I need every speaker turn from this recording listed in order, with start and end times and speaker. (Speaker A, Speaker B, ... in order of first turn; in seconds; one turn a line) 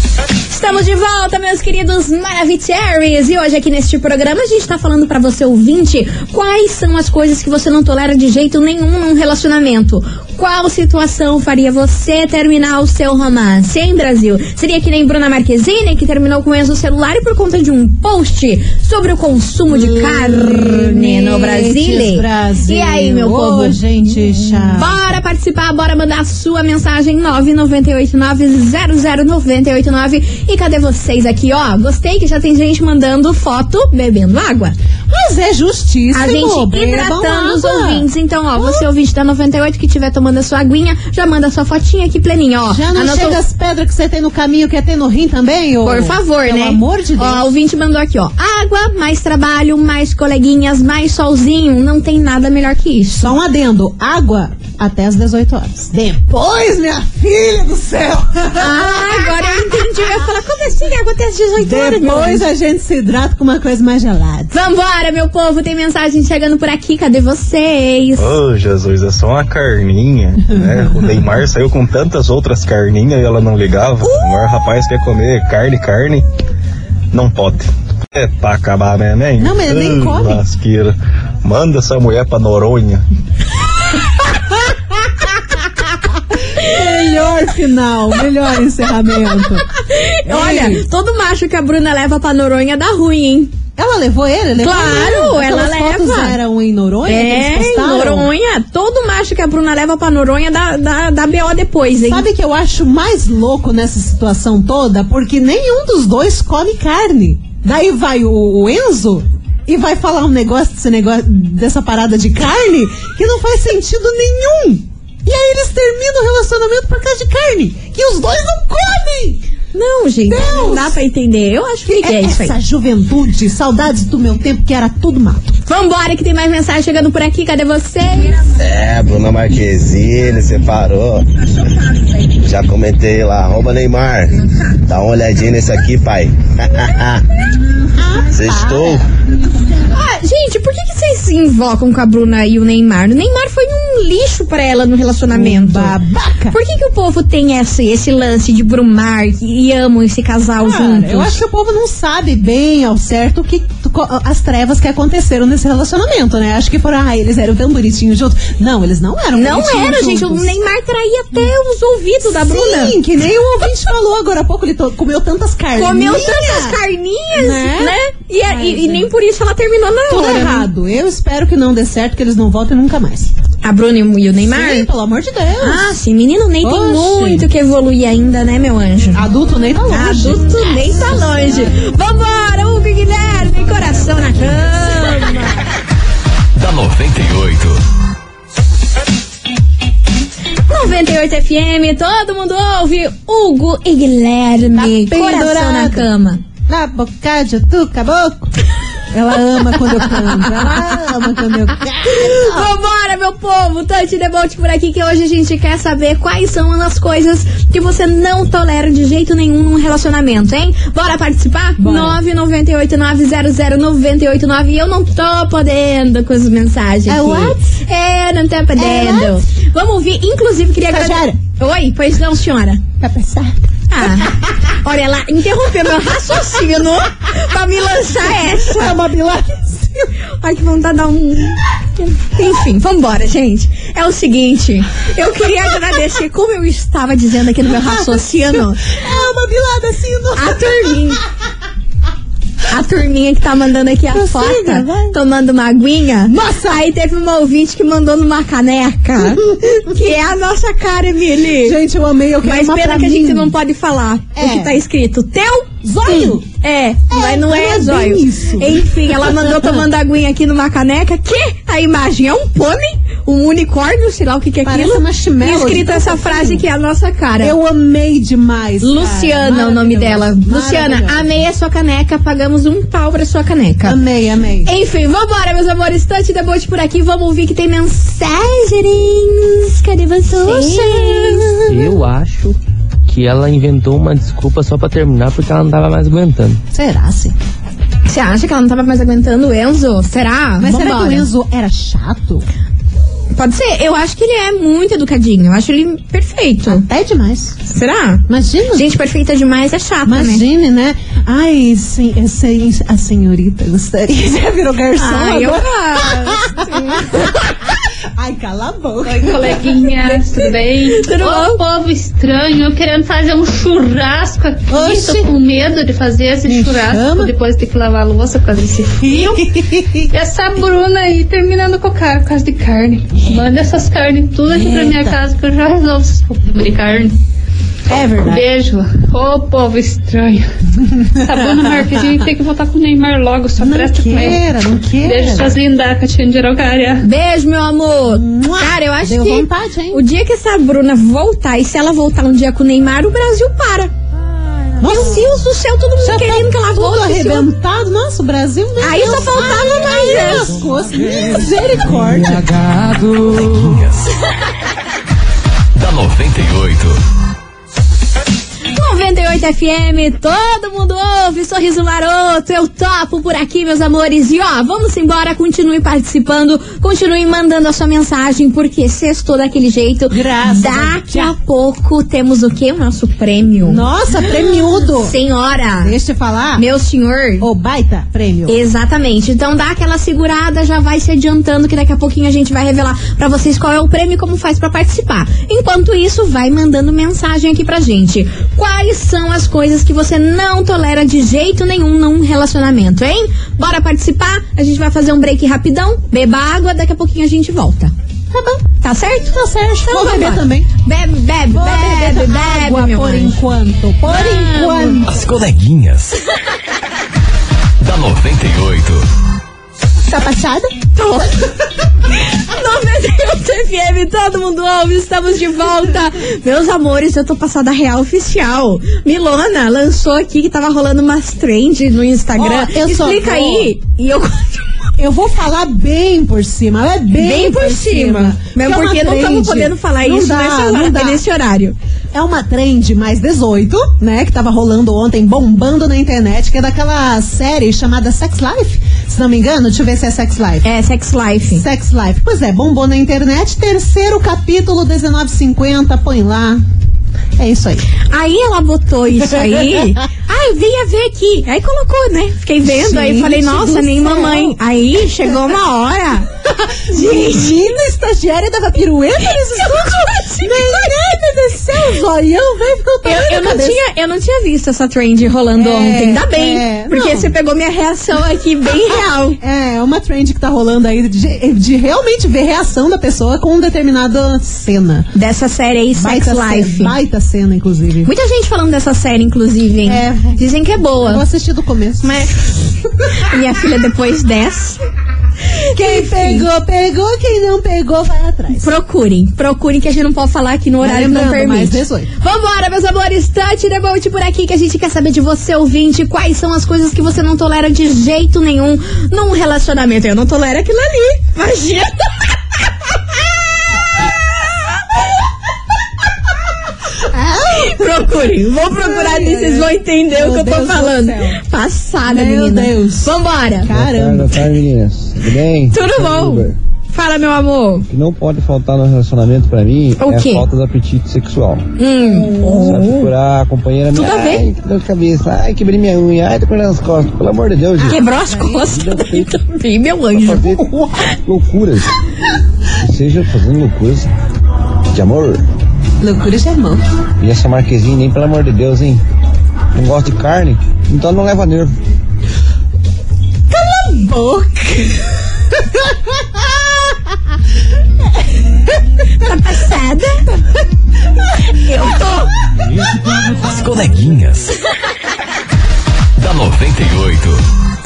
Speaker A: 0.5-23.8
Speaker B: 19.7-25.1
Speaker A: 24.7-34.7
Speaker B: 35.1-38.9
Speaker A: 36.1-43.4
Speaker B: 42.7-47.5
Speaker A: 45.8-53.3
Speaker B: 53.1-60.1
Speaker A: 58.5-62.5
Speaker B: 61.6-64.5
Speaker A: 64.5-68.4
Speaker C: 68.2-76.2
Speaker C: 77.1-80.9
Speaker B: 79.4-80.4
Speaker C: 81.4-83.0
Speaker B: 86.5-89.7
Speaker A: 89.3-93.5
Speaker B: 90.3-90.8
Speaker B: 93.8-98.3
Speaker A: 94.6-96.4
Speaker A: 97.0-102.3
Speaker B: 102.0-119.4
Speaker A: 119.7-122.6
Speaker B: 120.3-121.0
Speaker B: 121.8-125.5
Speaker A: 125.7-128.5
Speaker D: 128.5-131.3
Speaker A: 131.7-132.2
Speaker D: 132.4-134.3
Speaker A: 134.3-134.8
Speaker D: 134.8-137.2
Speaker B: 137.9-139.1
Speaker D: 138.3-139.1
Speaker A: 139.9-146.0
Speaker B: 145.3-146.6
Speaker A: 146.5-151.4
Speaker B: 150.6-160.5
Speaker A: 159.3-163.0
Speaker B: 162.2-166.8
Speaker A: 165.8-170.7
Speaker B: 167.3-169.1
Speaker B: 170.1-173.3
Speaker A: 173.6-174.9
Speaker B: 174.5-175.9
Speaker A: 175.6-179.2
Speaker B: 176.6-177.5
Speaker B: 179.1-181.4
Speaker A: 179.9-185.6
Speaker E: 186.5-187.8
Speaker A: 190.7-196.4
Speaker B: 194.7-196.1
Speaker B: 196.7-198.5
Speaker B: 199.1-202.7
Speaker A: 200.1-200.7
Speaker A: 202.0-222.8
Speaker B: 211.8-212.2
Speaker B: 217.1-217.6
Speaker B: 218.8-219.4
Speaker B: 220.9-221.4
Speaker B: 223.0-224.4
Speaker A: 223.9-229.0
Speaker B: 228.4-230.1
Speaker A: 230.4-238.8
Speaker B: 237.7-241.1
Speaker A: 240.3-241.2
Speaker A: 242.7-251.8
Speaker B: 244.1-245.2
Speaker B: 246.3-246.8
Speaker B: 251.6-253.5
Speaker A: 252.4-267.6
Speaker B: 254.3-254.8
Speaker B: 255.8-256.4
Speaker B: 257.1-259.9
Speaker B: 264.6-266.6
Speaker B: 267.4-271.3
Speaker A: 268.8-274.0
Speaker B: 273.8-274.7
Speaker A: 274.6-281.5
Speaker B: 280.3-281.9
Speaker F: 281.7-286.6
Speaker B: 286.7-287.3
Speaker A: 288.1-291.3
Speaker B: 290.6-292.4
Speaker A: 293.4-296.8
Speaker B: 296.6-297.6
Speaker A: 297.6-300.4
Speaker B: 298.3-298.9
Speaker B: 300.1-307.4
Speaker A: 304.9-307.3
Speaker B: 308.2-309.9
Speaker G: 309.1-319.5
Speaker A: 310.9-311.6
Speaker B: 314.7-315.3
Speaker B: 316.4-317.3
Speaker B: 319.0-320.1
Speaker G: 320.1-327.1
Speaker B: 324.5-325.2
Speaker B: 327.9-328.4
Speaker G: 328.2-330.4
Speaker G: 331.2-334.4
Speaker B: 331.2-332.2
Speaker B: 333.6-335.6
Speaker G: 335.0-337.1
Speaker A: 337.0-343.9
Speaker B: 338.1-340.0
Speaker B: 344.6-345.3
Speaker A: 344.8-347.5
Speaker B: 346.0-352.7
Speaker A: 348.8-350.5
Speaker E: 353.1-354.1
Speaker E: 355.7-357.0
Speaker A: 358.7-373.9
Speaker B: 370.1-371.3
Speaker B: 373.6-375.2
Speaker A: 374.9-375.9
Speaker B: 375.8-376.6
Speaker A: 376.6-377.5
Speaker B: 377.4-378.6
Speaker A: 378.5-397.9
Speaker B: 398.3-398.7
Speaker A: 398.8-403.4
Speaker B: 399.3-400.7
Speaker B: 401.5-405.2
Speaker A: 404.1-405.0
Speaker E: 405.1-406.2
Speaker E: 407.8-409.1
Speaker B: 410.0-410.7
Speaker A: 410.9-411.5
Speaker A: 412.2-424.9
Speaker B: 422.4-423.7
Speaker B: 425.0-431.2
Speaker A: 427.1-431.7
Speaker B: 432.1-440.7
Speaker A: 440.6-441.6
Speaker B: 441.5-446.6
Speaker B: 447.4-447.9
Speaker A: 448.1-456.3
Speaker B: 452.6-454.6
Speaker B: 456.4-463.8
Speaker A: 456.9-457.6
Speaker A: 459.6-460.9
Speaker A: 463.0-469.4
Speaker B: 465.5-467.3
Speaker B: 469.4-475.1
Speaker A: 475.1-476.9
Speaker B: 475.9-478.1
Speaker A: 478.0-481.2
Speaker B: 479.8-480.4
Speaker B: 481.0-482.3
Speaker A: 482.0-484.8
Speaker A: 485.7-486.4
Speaker B: 485.7-488.7
Speaker A: 488.6-502.3
Speaker B: 490.8-492.1
Speaker B: 507.0-511.4
Speaker A: 507.5-513.7
Speaker B: 512.0-514.5
Speaker H: 513.7-516.5
Speaker A: 515.7-517.9
Speaker H: 517.9-521.6
Speaker A: 520.0-520.4
Speaker A: 521.8-523.1
Speaker H: 522.4-529.3
Speaker A: 523.9-524.5
Speaker A: 527.8-530.7
Speaker B: 528.0-528.7
Speaker H: 530.1-531.9
Speaker H: 532.8-534.1
Speaker H: 534.9-535.4
Speaker B: 536.0-536.8
Speaker H: 537.2-539.0
Speaker H: 539.7-541.7
Speaker B: 543.5-546.9
Speaker A: 549.2-550.2
Speaker A: 551.6-552.3
Speaker E: 553.4-554.5
Speaker E: 556.2-557.4